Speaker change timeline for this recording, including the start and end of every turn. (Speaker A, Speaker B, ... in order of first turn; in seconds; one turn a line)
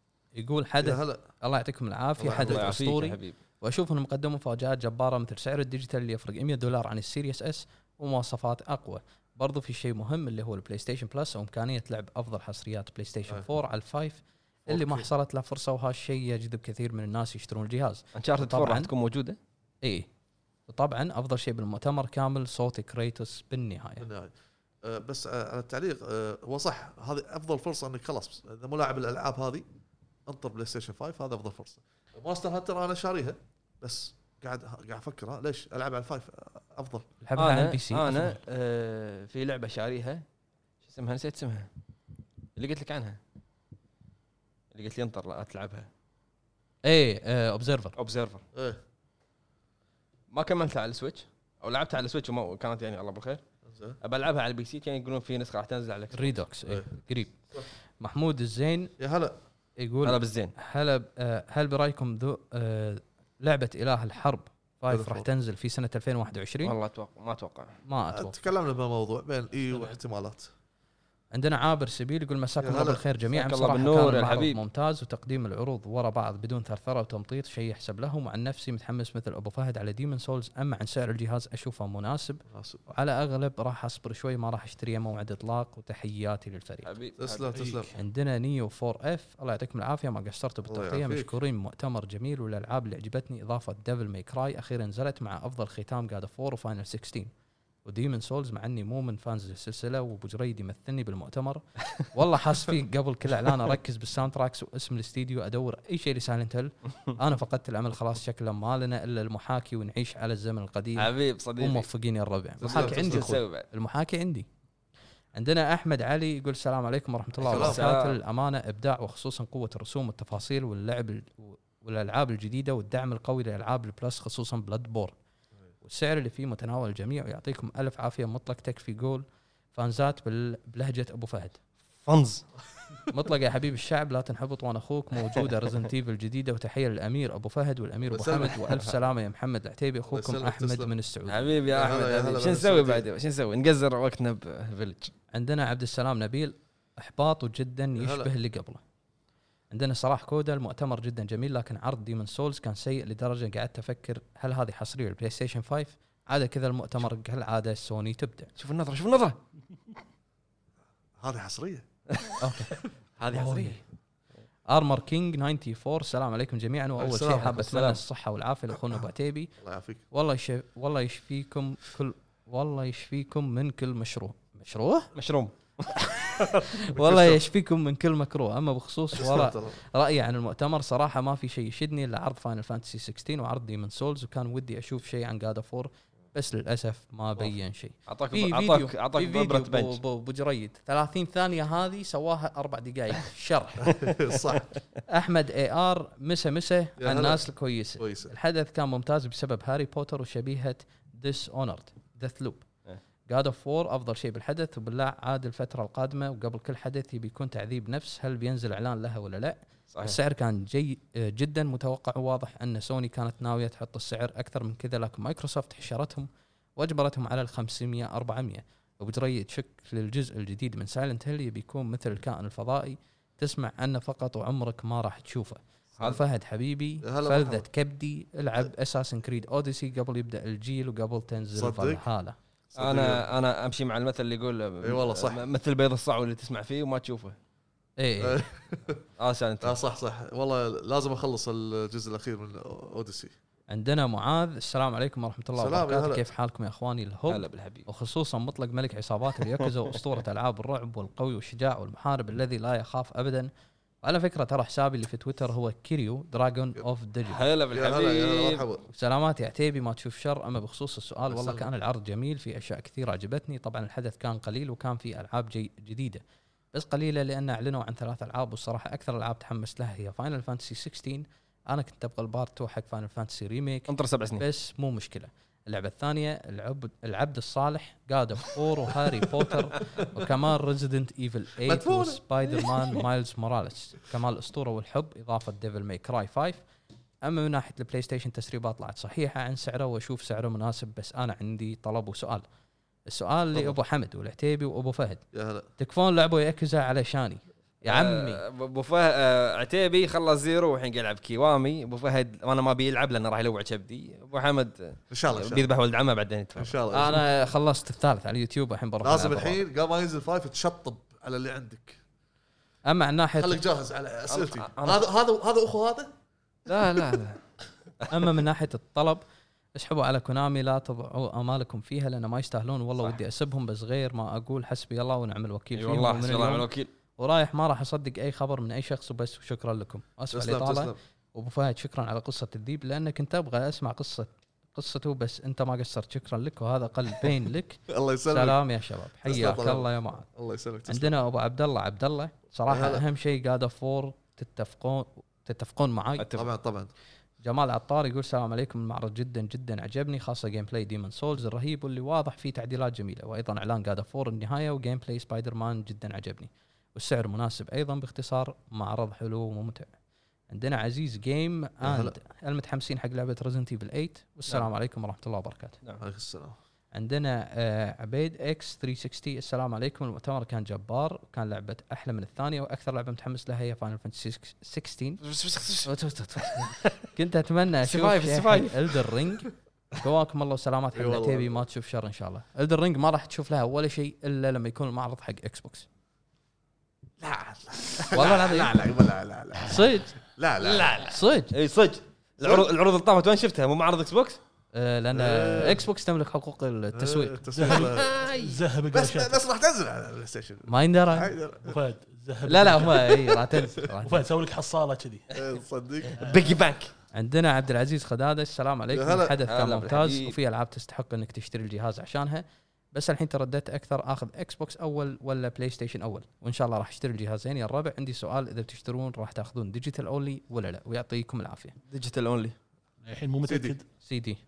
Speaker A: 0.3-18.9
Speaker B: 0.8-1.2
Speaker B: 2.2-2.8
Speaker C: 2.4-3.4
Speaker B: 14.7-15.1
Speaker C: 18.1-19.4
Speaker A: 19.8-20.1
Speaker A: 20.7-24.1
Speaker B: 24.0-29.6
Speaker B: 30.3-37.0
Speaker A: 37.2-38.4
Speaker C: 37.4-40.2
Speaker C: 40.8-41.7
Speaker C: 42.5-43.2
Speaker C: 44.7-45.9
Speaker A: 46.8-47.9
Speaker C: 48.0-48.4
Speaker B: 48.5-48.8
Speaker C: 50.3-53.4
Speaker B: 53.7-54.0
Speaker C: 54.0-56.4
Speaker A: 56.1-57.4
Speaker A: 58.0-58.9
Speaker B: 59.0-59.4
Speaker A: 59.8-66.7
Speaker C: 60.0-60.5
Speaker B: 64.9-65.3
Speaker C: 66.6-67.7
Speaker A: 67.8-68.4
Speaker B: 68.1-70.5
Speaker A: 71.3-86.9
Speaker B: 72.6-73.0
Speaker C: 73.3-74.6
Speaker B: 82.5-82.8
Speaker C: 86.8-87.9
Speaker B: 87.2-87.9
Speaker D: 87.5-87.8
Speaker A: 87.9-97.3
Speaker B: 90.7-91.3
Speaker A: 97.8-114.5
Speaker C: 111.0-111.9
Speaker B: 112.6-113.3
Speaker C: 112.6-113.7
Speaker A: 115.3-125.1
Speaker B: 117.4-117.9
Speaker C: 117.4-118.2
Speaker A: 125.8-131.6
Speaker C: 132.1-132.4
Speaker A: 133.1-141.5
Speaker B: 138.1-138.9
Speaker B: 140.1-140.9
Speaker C: 141.3-145.1
Speaker B: 141.7-143.1
Speaker A: 145.3-148.8
Speaker B: 147.9-148.3
Speaker A: 149.7-158.5
Speaker C: 158.6-159.4
Speaker B: 161.2-161.8
Speaker C: 162.1-162.4
Speaker A: 162.4-162.7
Speaker C: 163.2-163.8
Speaker A: 163.3-163.7
Speaker A: 164.7-169.5
Speaker B: 167.0-167.6
Speaker C: 167.4-168.0
Speaker B: 169.6-170.0
Speaker A: 170.1-175.1
Speaker C: 175.1-176.7
Speaker A: 175.9-194.0
Speaker B: 176.9-177.4
Speaker B: 179.1-179.8
Speaker C: 188.1-190.0
Speaker B: 193.8-194.7
Speaker A: 195.1-202.7
Speaker B: 197.0-197.4
Speaker B: 198.0-198.3
Speaker A: 203.3-232.3
Speaker C: 209.9-210.2
Speaker B: 227.0-227.7
Speaker B: 231.6-232.1
Speaker B: 232.7-233.2
Speaker C: 232.8-237.3
Speaker B: 234.8-235.4
Speaker A: 238.0-238.4
Speaker B: 238.2-239.0
Speaker C: 239.2-239.8
Speaker B: 239.6-243.3
Speaker A: 243.7-253.5
Speaker B: 245.6-246.3
Speaker C: 247.3-247.9
Speaker A: 254.0-257.4
Speaker C: 257.3-258.6
Speaker B: 257.7-258.9
Speaker A: 258.9-286.6
Speaker B: 261.3-261.7
Speaker C: 273.9-274.4
Speaker B: 281.6-282.6
Speaker A: 287.2-292.4
Speaker A: 293.1-295.2
Speaker B: 295.3-295.7
Speaker A: 295.8-298.4
Speaker C: 297.9-306.8
Speaker B: 305.1-305.7
Speaker B: 306.6-307.2
Speaker A: 306.9-309.6
Speaker B: 309.0-312.0
Speaker A: 312.9-313.6
Speaker B: 313.4-316.1
Speaker C: 314.3-315.0
Speaker C: 316.6-317.4
Speaker A: 318.1-319.2
Speaker A: 319.7-340.3
Speaker C: 325.7-326.9
Speaker B: 330.3-330.9
Speaker B: 337.9-338.6
Speaker B: 339.2-341.1
Speaker A: 340.9-346.3
Speaker B: 342.7-343.0
Speaker C: 346.2-346.5
Speaker B: 346.4-346.9
Speaker A: 347.4-359.9
Speaker A: 360.5-365.8
Speaker B: 361.8-362.1
Speaker B: 366.0-366.6
Speaker A: 366.9-375.2
Speaker C: 375.2-377.0
Speaker A: 375.9-385.9
Speaker C: 377.8-379.1
Speaker B: 380.9-381.6
Speaker B: 387.2-391.1
Speaker A: 388.1-388.7
Speaker A: 389.6-390.1
Speaker C: 390.6-394.4
Speaker A: 391.1-391.5
Speaker B: 392.4-392.7
Speaker A: 394.7-397.5
Speaker B: 395.1-395.9
Speaker B: 396.9-398.2
Speaker D: 397.6-399.4
Speaker C: 397.6-398.6
Speaker B: 398.9-401.7
Speaker A: 400.7-401.3
Speaker D: 401.6-403.4
Speaker A: 402.4-404.3
Speaker D: 404.0-405.4
Speaker B: 405.3-406.4
Speaker D: 406.2-406.6
Speaker C: 406.2-406.9
Speaker A: 407.1-421.8
Speaker B: 408.9-409.4
Speaker C: 409.5-410.4
Speaker C: 421.9-422.6
Speaker D: 423.0-423.9
Speaker B: 423.4-423.8
Speaker A: 424.0-424.4